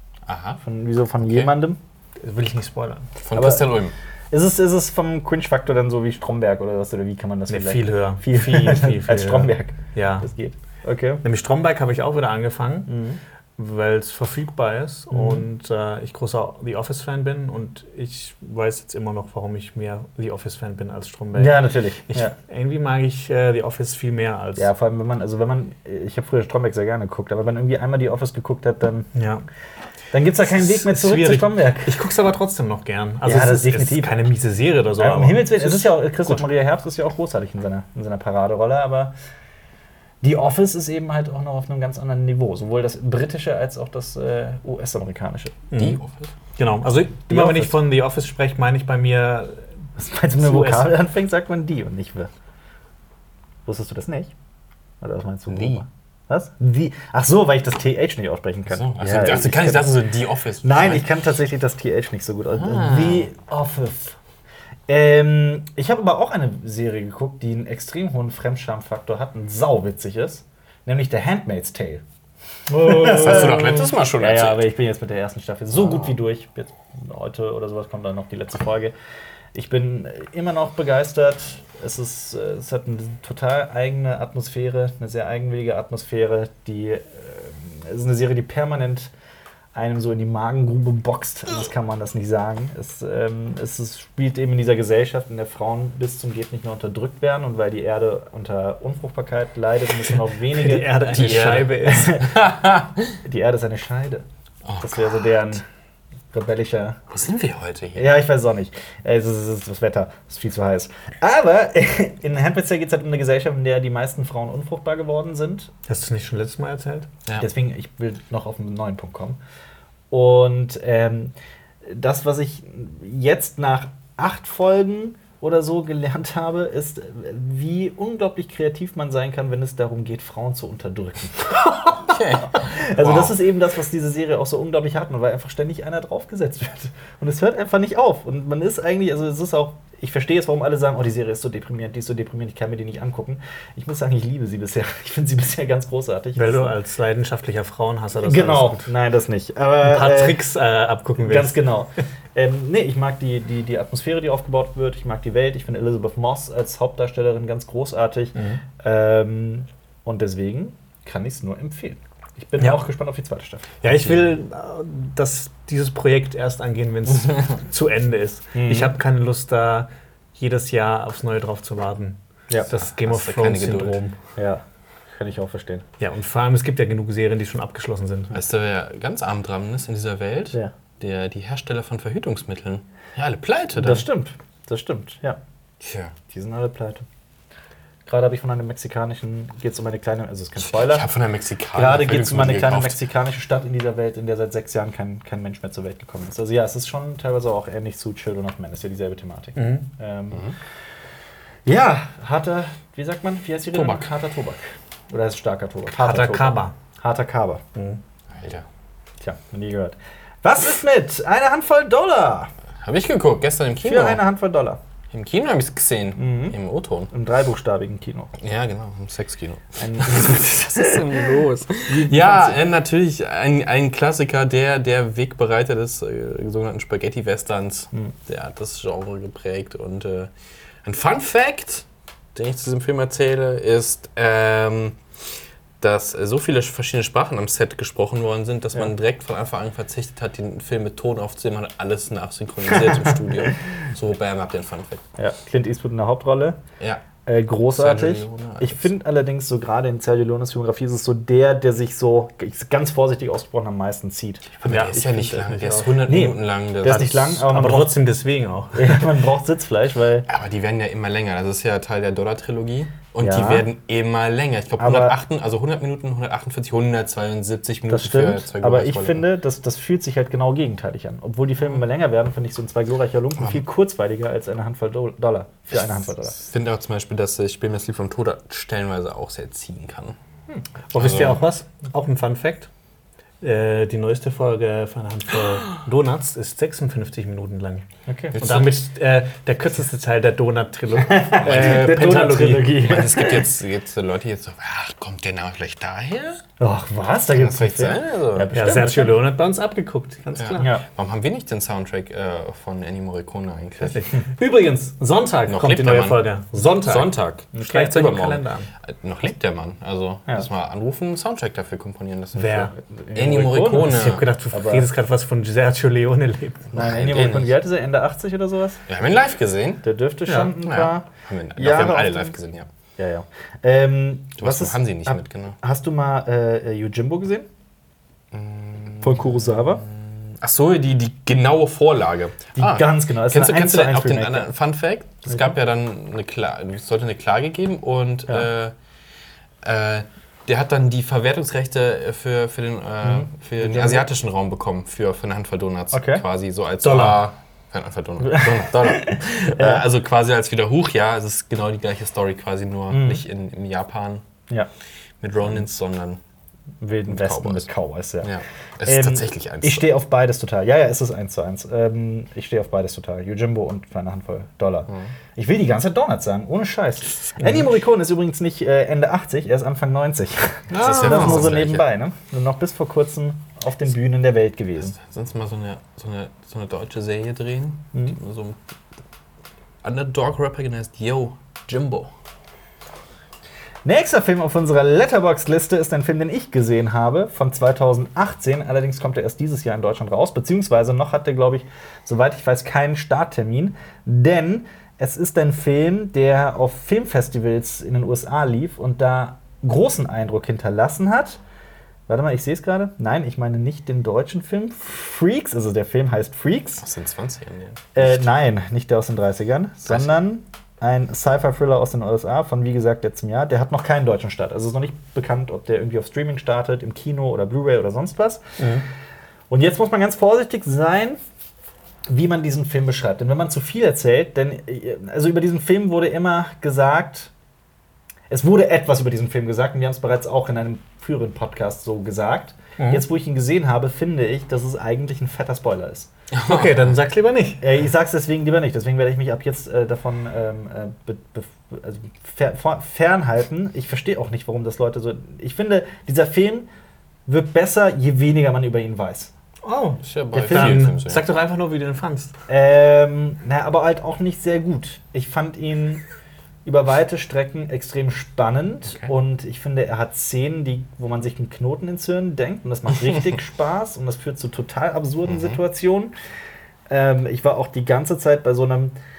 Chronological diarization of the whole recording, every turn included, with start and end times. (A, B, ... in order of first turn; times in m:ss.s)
0:00.3-0:00.6 A
0:00.6-0:01.8 B
0:01.2-0:01.5 A
0:02.2-0:03.1 C
0:03.2-0:03.9 A
0:03.3-0:03.6 B
0:04.3-0:11.2 B
0:07.5-0:10.3 C
0:11.2-0:12.9 C
0:12.9-0:13.2 B
0:13.6-0:24.7 C
0:15.1-0:15.4 B
0:21.3-0:22.3 B
0:24.6-0:29.1 B
0:29.1-0:29.4 C
0:30.1-0:31.9 B
0:30.4-0:36.4 C
0:33.2-0:34.3 B
0:35.0-0:39.1 B
0:40.2-0:45.6 B
0:45.7-0:46.0 C
0:45.7-0:46.3 A
0:46.6-0:49.7 C
0:47.3-0:47.8 B
0:50.0-0:52.3 B
0:50.4-0:51.0 C
0:53.6-0:54.3 B
0:55.0-1:00.0 B
0:55.5-0:55.8 A
0:58.7-1:01.1 A
1:00.6-1:04.2 B
1:02.6-1:03.3 A
1:04.9-1:12.0 B
1:12.7-1:13.9 C
1:12.7-1:18.9 B
1:13.0-1:14.6 A
1:15.8-1:16.0 A
1:19.5-1:29.1 B
1:29.7-1:41.1 B
1:40.5-1:42.2 C
1:41.1-1:43.2 A
1:41.8-1:42.5 B
1:43.2-1:44.2 B
1:44.6-1:45.2 A
1:44.8-1:45.6 B
1:46.3-1:47.0 B
1:47.1-1:48.1 A
1:48.0-1:55.7 B
1:55.9-1:57.1 C
1:57.4-1:59.4 B
2:00.1-2:26.8 B
2:12.0-2:13.4 A
2:26.3-2:28.9 C
2:28.2-2:30.4 B
2:29.8-2:31.6 C
2:31.2-2:43.8 B
2:38.3-2:38.6 C
2:43.8-2:54.2 C
2:43.9-2:44.1 A
2:48.5-2:48.9 B
2:52.7-2:54.0 A
2:54.4-2:55.8 B
2:56.0-2:58.4 C
2:58.3-3:04.0 A
3:03.7-3:05.4 B
3:05.8-3:06.1 A
3:06.3-3:07.0 B
3:08.1-3:11.1 B
3:10.6-3:13.0 A
3:11.7-3:20.5 B
3:19.6-3:19.9 C
3:21.6-3:27.6 B
3:23.7-3:24.1 A
3:25.9-3:26.7 C
3:27.7-3:28.0 C
3:28.3-3:28.6 A
3:29.2-3:32.5 B
3:32.8-3:34.2 A
3:33.8-3:34.8 B
3:35.1-3:37.1 A
3:36.2-3:36.6 B
3:37.1-3:38.3 B
3:38.4-3:50.3 A
3:39.8-3:42.6 B
3:50.8-3:55.0 A
3:55.8-4:05.0 A
4:02.7-4:03.5 B
4:05.2-4:06.6 B
4:07.2-4:17.9 B
4:07.7-4:08.8 A
4:14.6-4:17.5 A
4:14.7-4:15.0 C
4:17.5-4:19.2 C
4:18.7-4:20.3 B
4:20.3-4:29.2 A
4:23.2-4:23.6 B
4:24.8-4:25.2 B
4:27.9-4:36.4 B
4:36.4-4:40.2 A
4:40.5-4:40.8 B
4:40.9-4:41.4 A
4:40.9-4:42.7 C
4:43.4-4:47.8 C
4:48.1-4:48.4 B
4:48.3-4:48.8 A
4:48.4-4:52.8 C
4:51.0-4:53.5 B
4:51.4-4:52.0 A
4:52.8-4:56.4 A
4:56.6-4:59.1 B
4:57.3-4:58.5 A
4:58.5-5:00.7 C
5:00.4-5:04.0 A
5:00.6-5:00.8 B
5:03.9-5:08.7 C
5:05.5-5:06.2 A
5:06.8-5:14.2 A
5:07.5-5:08.0 B
5:12.3-5:12.7 C
5:12.9-5:14.9 B
5:13.7-5:16.7 C
5:16.7-5:18.8 B
5:16.7-5:17.5 A
5:18.9-5:19.8 A
5:19.8-5:22.4 B
5:20.3-5:20.5 C
5:20.6-5:22.7 A
5:23.0-5:27.5 B
5:24.4-5:25.6 A
5:28.3-5:38.7 A
5:29.0-5:29.8 B
5:32.6-5:34.5 B
5:39.6-5:54.2 A
5:43.0-5:44.1 B
5:45.9-5:46.2 B
5:46.8-5:47.2 C
5:48.2-5:49.8 B
5:52.9-5:53.2 B
5:55.2-5:56.2 A
5:56.8-5:58.3 B
5:57.1-5:57.7 A
5:58.2-5:59.9 A
5:58.8-6:14.9 B
6:07.4-6:07.6 C
6:10.7-6:11.5 C
6:10.7-6:11.9 A
6:14.9-6:18.6 A
6:19.8-6:22.1 A
6:23.8-6:41.4 B
6:42.1-6:46.8 B
6:46.8-6:48.2 A
6:48.0-6:58.4 B
6:58.6-6:58.8 C
6:59.5-7:01.2 B
7:02.1-7:07.3 B
7:08.3-7:16.1 B
7:12.8-7:13.0 C
7:16.3-7:16.9 A
7:16.4-7:17.6 C
7:17.6-7:26.7 B
7:27.2-7:29.3 B
7:29.6-7:32.3 C
7:30.0-7:31.2 A
7:30.3-7:30.9 B
7:32.5-7:36.0 B
7:36.6-7:46.1 B
7:45.2-7:45.6 A
7:46.9-7:48.9 B